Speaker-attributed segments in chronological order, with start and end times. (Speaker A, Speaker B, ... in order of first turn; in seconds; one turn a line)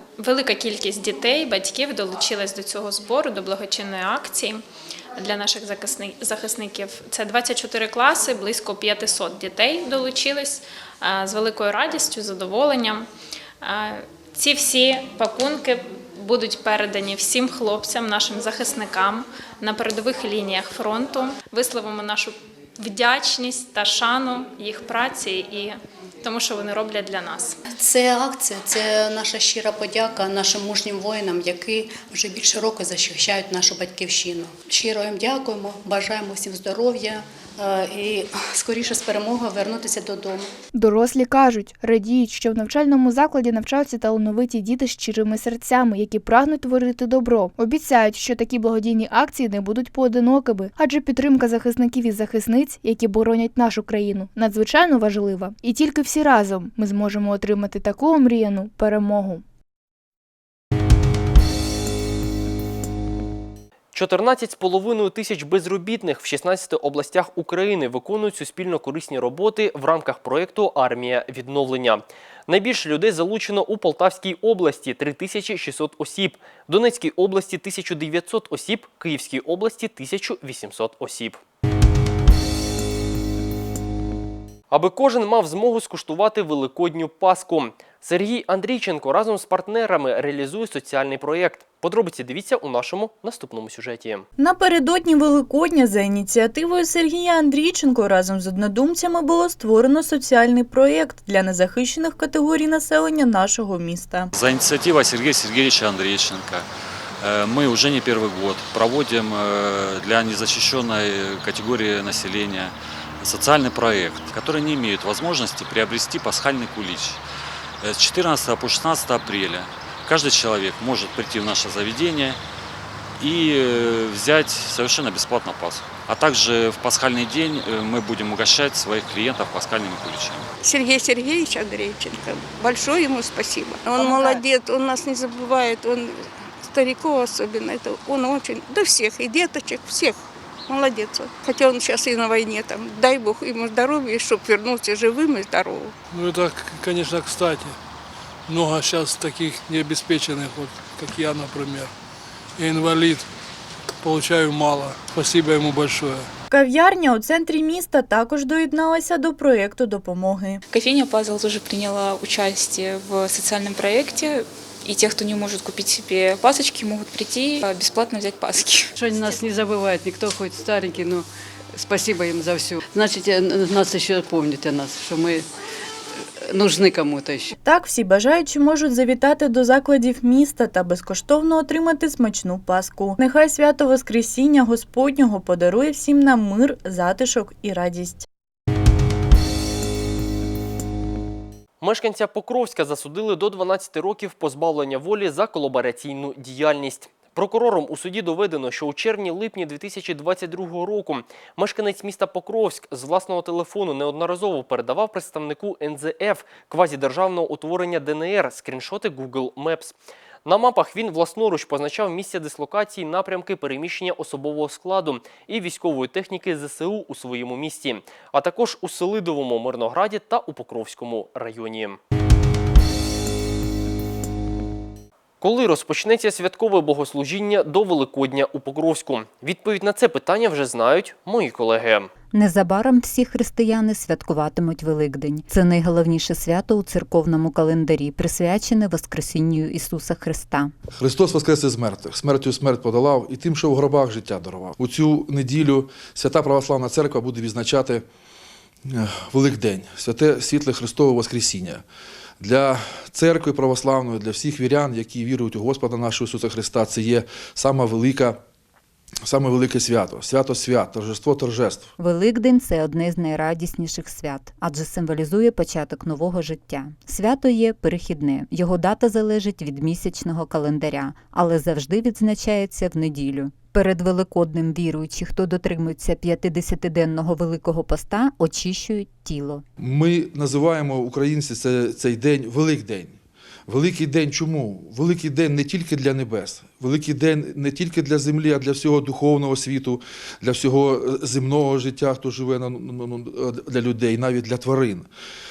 Speaker A: 0.2-4.6
Speaker A: 5.2-13.1
Speaker A: 13.6-27.6
Speaker B: 27.8-40.5
Speaker C: 40.8-59.4
Speaker D: 63.9-81.4
Speaker D: 84.7-94.2
Speaker E: 94.4-104.3
Speaker F: 104.4-106.7
Speaker F: 107.2-117.2
Speaker F: 117.8-122.4
Speaker F: 123.2-130.5
Speaker G: 130.6-140.2
Speaker G: 140.7-145.9
Speaker H: 146.1-147.8
Speaker H: 148.5-151.9
Speaker H: 152.6-153.3
Speaker H: 154.0-156.3
Speaker E: 156.5-160.6
Speaker I: 160.7-169.6
Speaker J: 169.1-171.2
Speaker I: 170.7-171.0
Speaker I: 171.8-172.0
Speaker J: 171.8-175.4
Speaker J: 176.6-177.5
Speaker E: 177.6-188.3
Speaker D: 191.8-209.9
Speaker D: 210.5-222.0
Speaker D: 225.4-232.1
Speaker K: 232.3-240.7
Speaker L: 241.0-248.0
Speaker L: 248.9-251.8
Speaker L: 252.4-258.4
Speaker L: 259.2-261.9
Speaker K: 262.0-279.6
Speaker L: 279.8-283.2
Speaker L: 283.7-295.1